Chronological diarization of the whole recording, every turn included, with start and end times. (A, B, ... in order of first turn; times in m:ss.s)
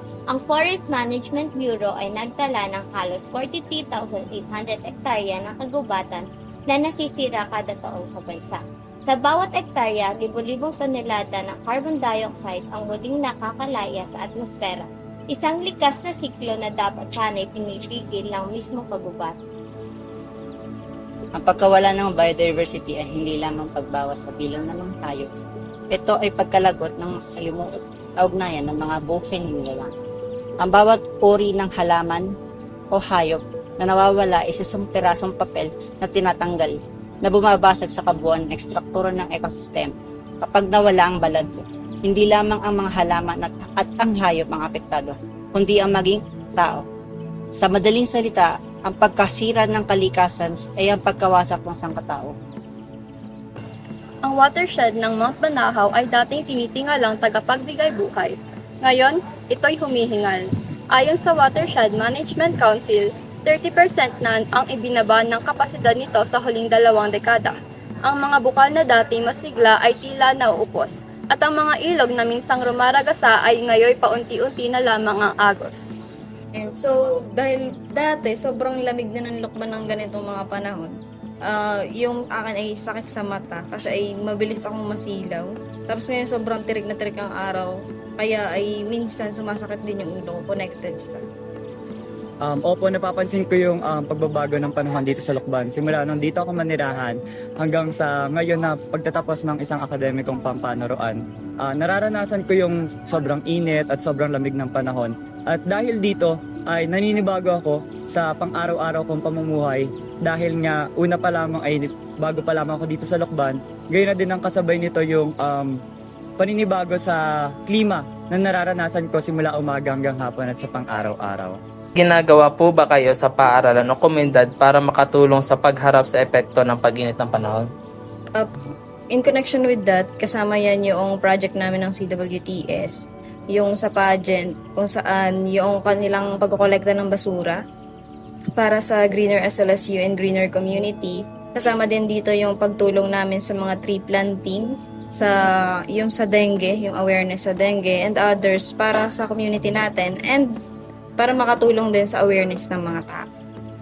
0:00.3-0:19.4 A
0:21.4-0:25.3 B
0:25.9-0:29.9 B
0:30.6-0:32.3 B
0:32.9-0:46.8 B
0:47.6-0:52.3 B
0:54.2-1:07.6 C
1:08.1-1:16.0 C
1:16.6-1:31.2 D
1:32.4-1:55.8 E
1:56.4-2:01.6 E
2:02.0-2:07.7 F
2:09.1-2:17.6 D
2:18.6-2:30.5 D
2:31.2-2:33.3 D